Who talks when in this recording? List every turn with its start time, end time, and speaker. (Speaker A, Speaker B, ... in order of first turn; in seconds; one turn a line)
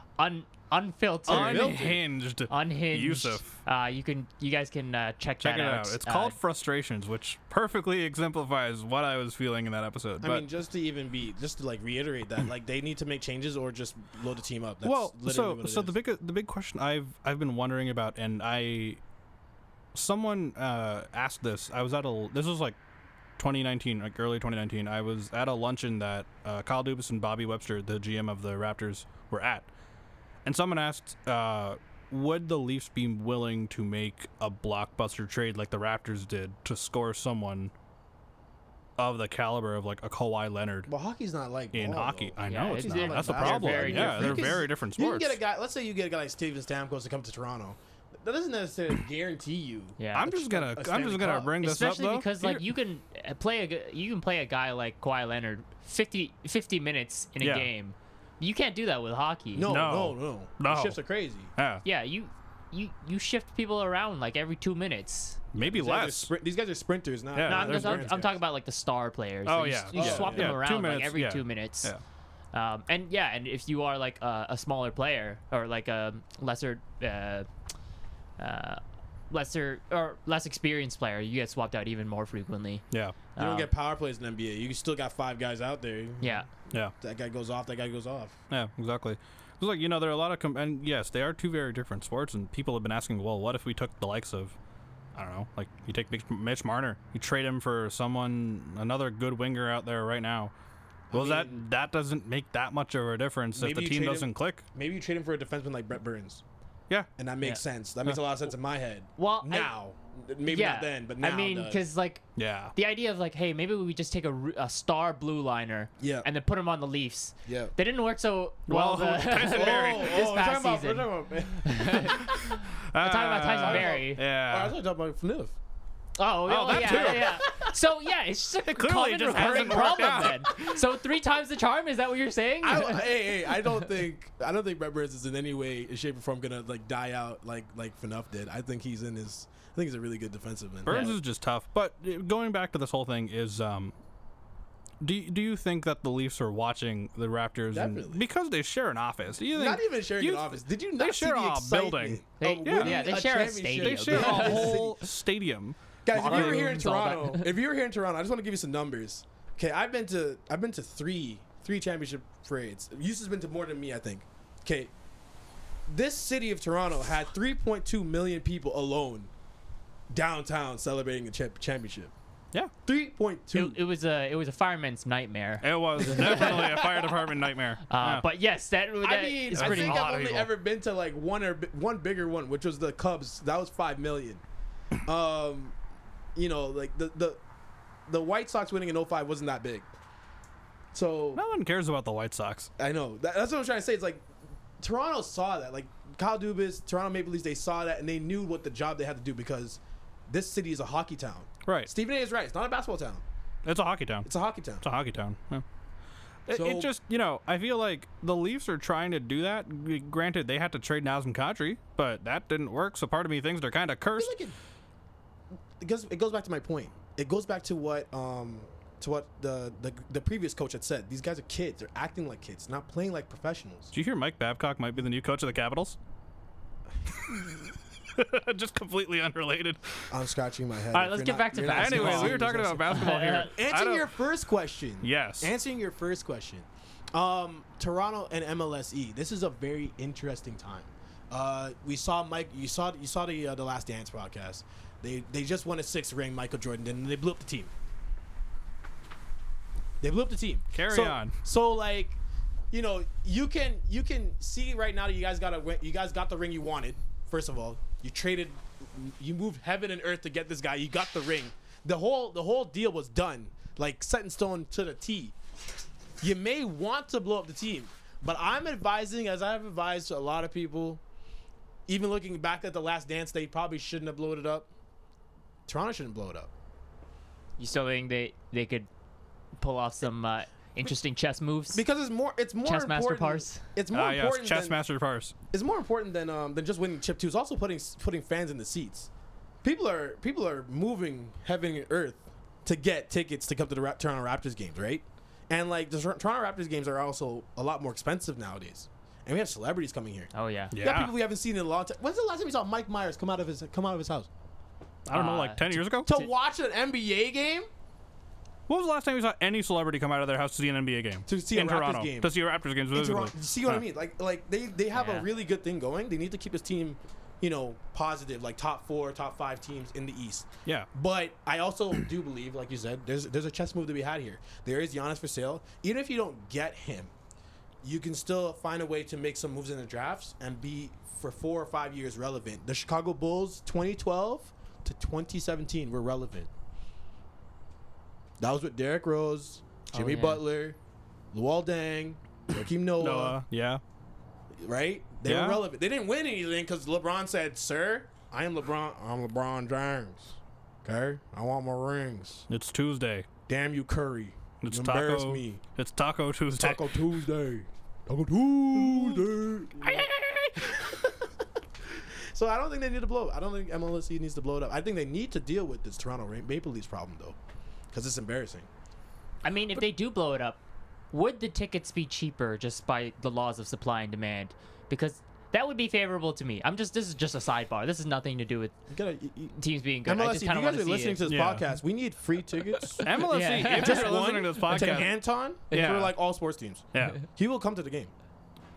Speaker A: 0.2-2.0
Speaker B: 1.3-2.0
Speaker C: 1.3-3.5
Speaker A: 2.5-6.4
Speaker C: 5.4-10.4
Speaker B: 10.2-15.9
Speaker C: 14.8-19.0
Speaker C: 19.9-22.8
Speaker C: 23.4-29.7
Speaker C: 30.4-37.7
Speaker C: 39.0-40.9
Speaker B: 40.9-51.6
Speaker C: 41.7-45.4
Speaker A: 42.4-44.6
Speaker A: 50.0-50.3
Speaker C: 50.1-52.6
Speaker A: 51.6-59.7
Speaker C: 57.4-57.7
Speaker B: 59.5-61.5
Speaker C: 59.6-61.0
Speaker C: 61.5-61.8
Speaker A: 61.8-65.4
Speaker C: 65.5-66.3
Speaker B: 65.6-68.4
Speaker C: 67.3-68.1
Speaker A: 67.5-71.9
Speaker C: 69.5-72.0
Speaker B: 69.9-70.6
Speaker A: 72.5-77.5
Speaker A: 78.4-83.7
Speaker C: 82.9-83.2
Speaker B: 83.4-88.4
Speaker A: 86.2-86.5
Speaker C: 88.5-94.5
Speaker C: 95.1-100.5
Speaker B: 101.1-101.6
Speaker C: 101.1-104.6
Speaker B: 103.5-106.4
Speaker B: 107.2-111.8
Speaker A: 109.2-109.7
Speaker A: 110.5-112.2
Speaker C: 112.3-112.7
Speaker A: 112.8-124.2
Speaker B: 116.0-116.3
Speaker B: 117.5-117.7
Speaker C: 118.7-120.2
Speaker B: 119.4-122.3
Speaker C: 122.4-124.7
Speaker B: 123.6-125.5
Speaker A: 126.2-133.7
Speaker C: 126.5-127.6
Speaker B: 126.7-127.4
Speaker C: 128.7-130.7
Speaker B: 129.4-130.2
Speaker B: 132.6-141.2
Speaker C: 140.8-144.0
Speaker A: 140.9-141.1
Speaker C: 145.0-153.0
Speaker B: 147.7-148.2
Speaker B: 149.5-155.0
Speaker A: 152.4-154.8
Speaker C: 153.8-156.7
Speaker B: 156.0-164.9
Speaker A: 156.1-157.5
Speaker B: 165.9-169.3
Speaker B: 170.1-172.1
Speaker B: 172.8-173.8
Speaker A: 173.5-176.9
Speaker C: 175.6-178.2
Speaker B: 176.1-177.0
Speaker A: 177.9-180.0
Speaker B: 179.0-184.4
Speaker C: 179.5-180.5
Speaker B: 185.0-185.7
Speaker B: 186.3-187.4
Speaker B: 188.1-189.9
Speaker B: 190.9-191.4
Speaker C: 191.3-192.7
Speaker B: 192.8-194.3
Speaker B: 194.8-203.2
Speaker C: 201.7-201.9
Speaker C: 203.6-204.3
Speaker B: 204.2-204.8
Speaker C: 204.8-205.6
Speaker C: 206.4-214.3
Speaker B: 206.5-206.9
Speaker B: 214.1-214.6
Speaker B: 215.8-223.9
Speaker C: 223.9-226.0
Speaker C: 228.1-230.1
Speaker B: 230.1-247.7
Speaker A: 230.9-233.5
Speaker C: 231.7-234.1
Speaker C: 235.0-235.5
Speaker B: 250.0-252.2
Speaker C: 250.7-251.3
Speaker B: 252.7-265.3
Speaker B: 266.2-271.0
Speaker B: 271.9-274.7
Speaker B: 275.7-276.5
Speaker A: 277.6-278.9
Speaker A: 279.6-281.8
Speaker B: 281.7-284.8
Speaker A: 282.6-283.6
Speaker C: 283.9-285.3
Speaker B: 285.5-289.1
Speaker B: 289.6-304.3
Speaker A: 300.3-300.7
Speaker C: 300.7-301.1
Speaker C: 305.1-306.2
Speaker A: 305.1-306.2
Speaker B: 306.1-307.7
Speaker C: 308.7-313.8
Speaker B: 311.2-312.4
Speaker B: 312.9-327.1
Speaker A: 314.9-315.2
Speaker B: 327.8-336.5
Speaker B: 338.4-340.8
Speaker A: 339.9-340.4
Speaker B: 341.3-343.4
Speaker C: 343.0-343.8
Speaker B: 344.6-352.5
Speaker C: 345.2-345.6
Speaker C: 352.5-353.3
Speaker B: 353.5-355.6
Speaker C: 354.6-356.9
Speaker B: 356.6-360.1
Speaker A: 359.8-360.6
Speaker B: 360.6-361.0
Speaker B: 362.3-367.4
Speaker B: 367.9-368.7
Speaker A: 369.4-370.6
Speaker A: 371.1-378.8
Speaker B: 378.9-388.1
Speaker A: 379.6-381.2
Speaker C: 381.2-381.6
Speaker A: 382.9-384.1
Speaker C: 383.0-385.1
Speaker C: 385.7-386.1
Speaker C: 386.9-387.2